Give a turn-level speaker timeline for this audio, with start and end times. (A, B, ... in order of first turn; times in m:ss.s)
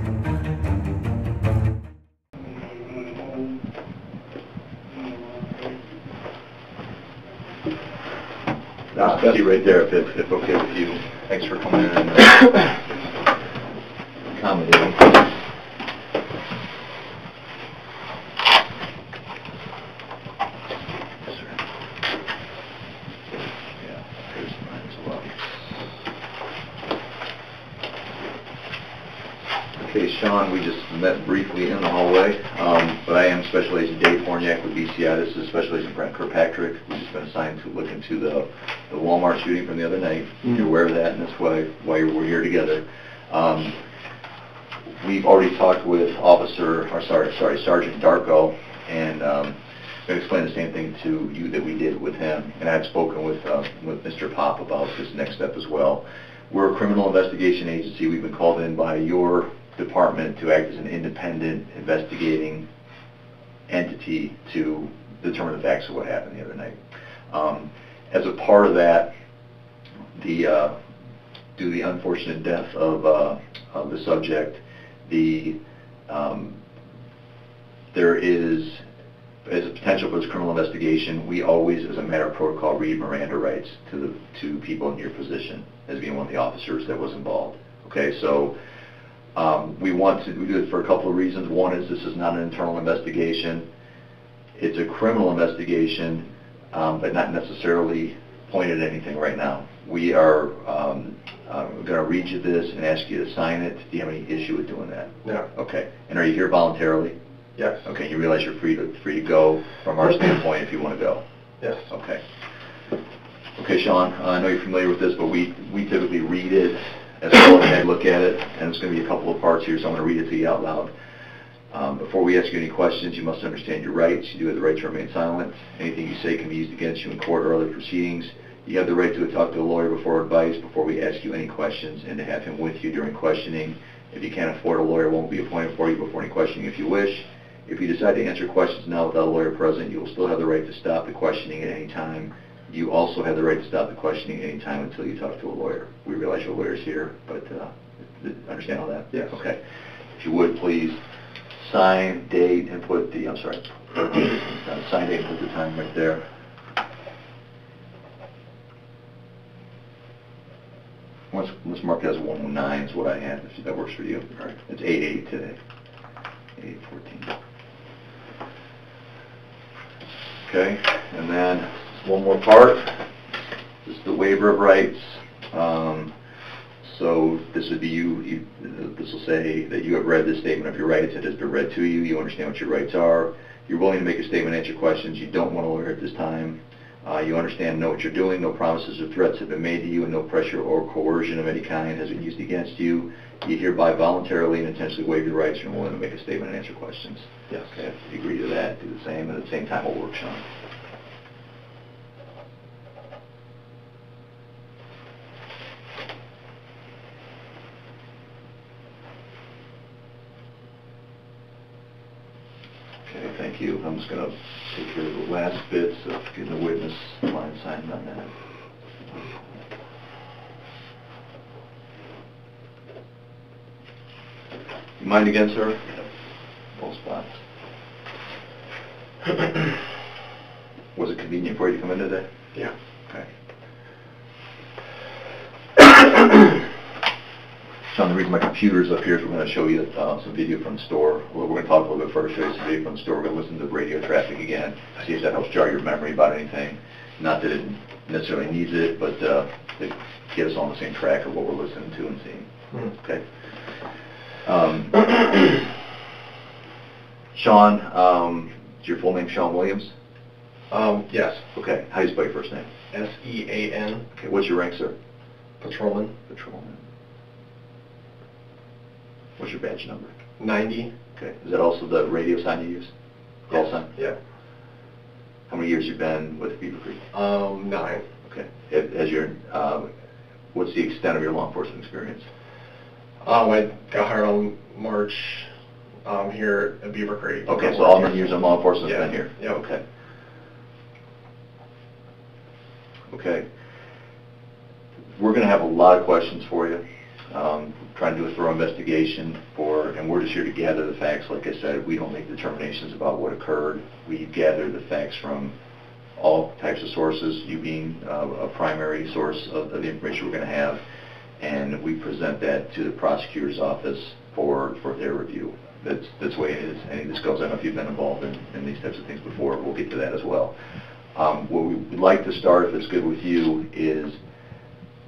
0:08.9-0:12.8 A
0:14.3-0:15.4 A
0:21.2-0:21.6 A
0:23.8-0:25.4 A
0:29.8-0:43.8 A
0:45.0-1:02.7 A
1:03.7-1:06.8 A
1:07.3-1:09.1 A
1:10.1-1:10.8 A
1:11.6-1:16.6 A
1:17.9-1:18.8 A
1:19.4-1:28.6 A
1:29.4-1:33.7 A
1:34.6-1:47.2 A
1:47.6-1:47.8 B
1:47.8-1:51.2 A
1:51.6-1:51.9 B
1:51.9-1:52.2 A
1:53.6-2:00.9 A
2:01.7-2:31.0 A
2:31.6-2:36.2 A
2:41.3-2:45.6 A
2:46.6-2:47.4 A
2:50.4-2:53.0 A
2:53.8-2:56.1 A
2:56.8-3:20.5 A
3:33.0-3:38.3 A
3:45.0-3:46.1 A
3:46.7-3:47.4 A
3:51.0-3:52.3 A
3:57.9-4:13.2 A
4:14.4-4:15.6 A
4:17.3-4:19.9 A
4:20.7-4:21.4 B
4:21.6-4:22.7 A
4:22.9-4:24.0 B
4:24.2-4:25.0 A
4:25.6-4:26.1 B
4:26.3-4:26.8 A
4:29.4-4:30.2 A
4:30.4-4:30.9 B
4:31.2-4:32.9 A
4:33.5-4:33.9 A
4:33.5-4:34.2 B
4:35.5-4:37.0 A
4:37.1-4:38.0 B
4:38.2-4:39.9 A
4:40.5-4:42.3 A
4:43.2-4:45.5 B
4:46.0-4:49.6 B
4:47.5-4:49.8 A
4:53.1-4:53.5 A
4:55.2-5:05.5 A
5:06.2-5:10.8 A
5:11.4-5:20.5 A
5:21.1-5:24.2 A